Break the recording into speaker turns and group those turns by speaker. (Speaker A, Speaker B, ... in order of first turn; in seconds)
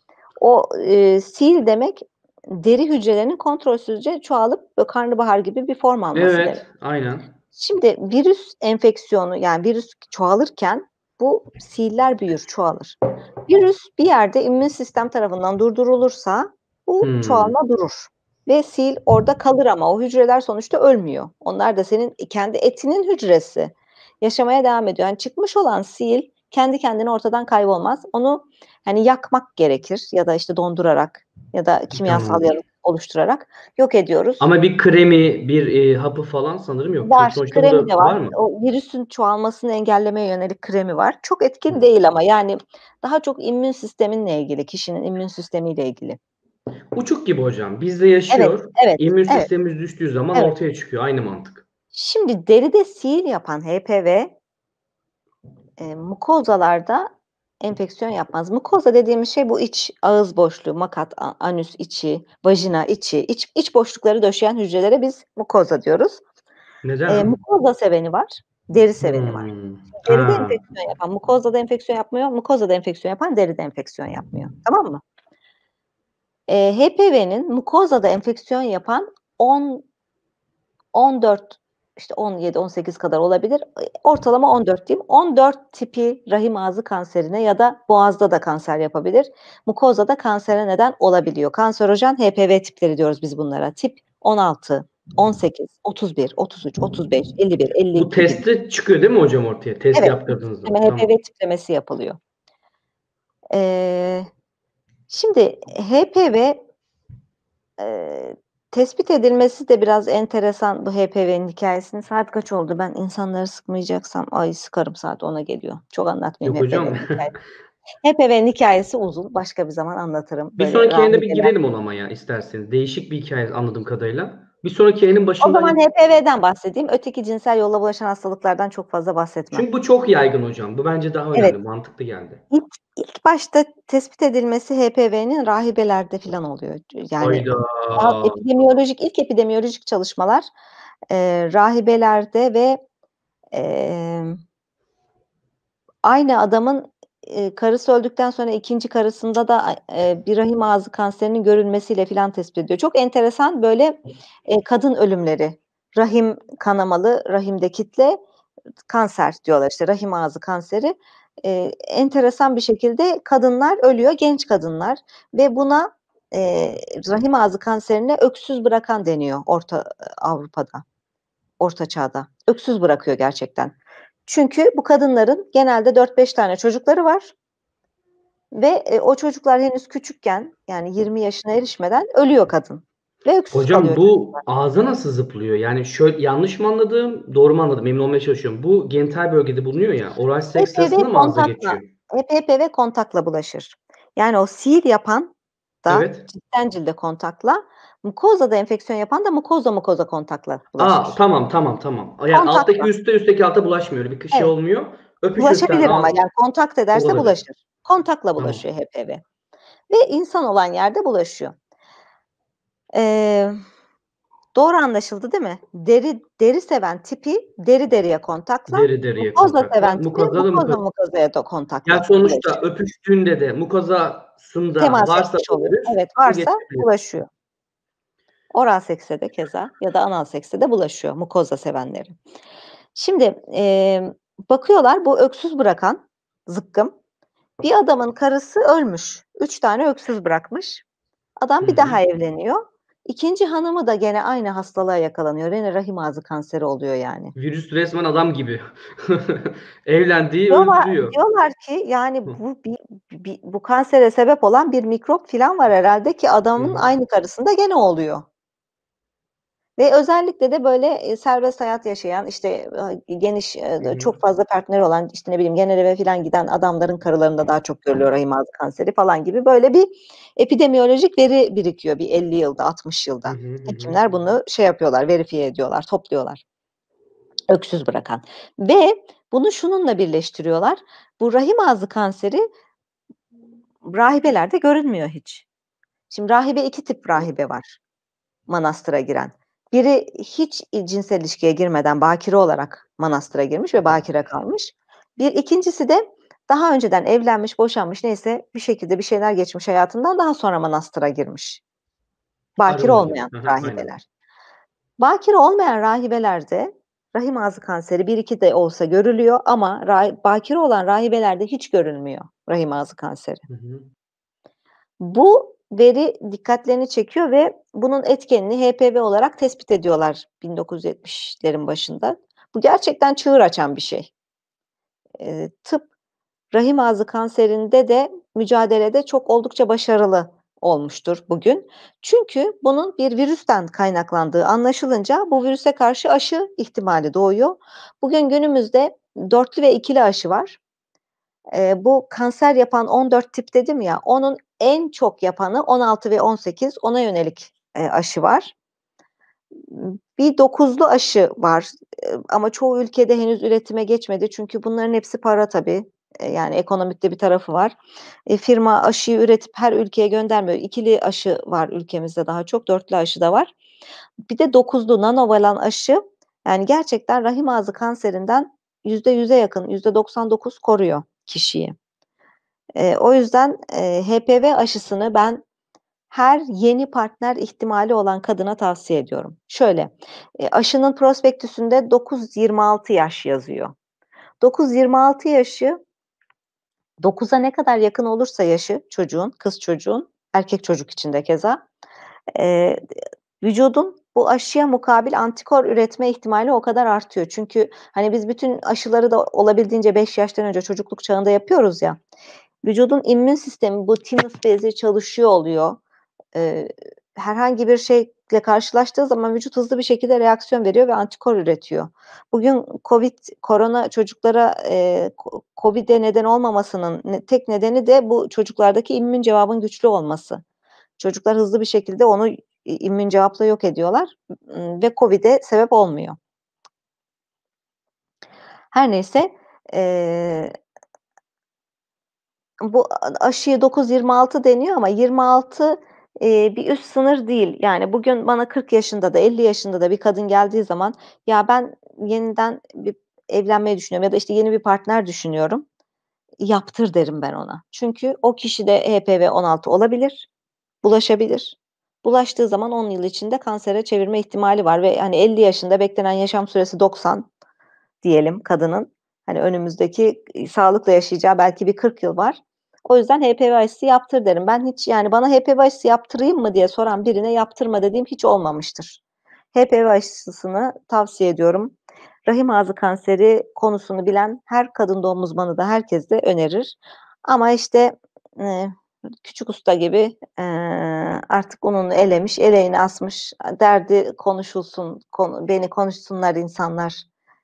Speaker A: 0.4-6.6, 7.5-34.5, 37.0-46.2, 48.3-49.5, 51.9-54.3, 55.8-57.1, 57.6-66.2, 67.1-69.5, 70.0-75.0, 76.5-79.8, 80.9-98.4, 99.9-102.2, 103.5-104.3, 105.1-106.6, 107.8-117.3, 118.0-121.5, 125.4-129.7, 132.5-140.5, 141.1-142.8, 143.5-144.4, 146.0-158.2, 158.9-170.8, 171.6-173.7, 174.2-177.3, 178.5-184.4, 190.6-195.3, 195.8-201.2, 202.3-202.9, 205.3-209.2, 209.9-211.5, 212.9-213.6, 214.5-222.6, 224.8-227.3, 228.5-232.1, 232.9-236.9, 237.6-240.8, 241.4-247.3, 250.5-258.2, 259.8-276.4, 277.5-282.4, 283.8-285.5, 286.1-287.8, 288.5-301.6, 302.6-304.0, 305.0-313.4, 315.0-324.1, 325.2-325.9, 326.5-340.6, 341.5-348.5, 349.7-363.5, 364.3-371.7, 372.8-375.4, 376.1-383.7, 384.4-385.8, 387.0-391.6, 392.3-392.8, 393.4-402.0, 402.6-405.8, 406.3-420.4, 421.0-426.2, 428.7-430.5, 432.6-445.6, 446.4-450.3, 450.8-457.3, 458.0-469.0, 469.5-487.0
Speaker B: 6.1-7.3, 17.0-17.5, 31.9-32.5, 34.4-38.4, 46.9-51.6, 66.8-67.3, 69.0-70.6, 98.0-101.1, 116.4-117.1, 120.6-125.8, 129.5-132.4, 137.2-138.4, 183.5-191.9, 195.9-196.3, 200.8-206.2, 206.9-207.3, 218.7-220.8, 221.8-226.9, 241.6-242.0, 247.3-251.2, 256.6-256.8, 263.8-264.1, 273.2-274.0, 302.6-303.9, 313.5-313.9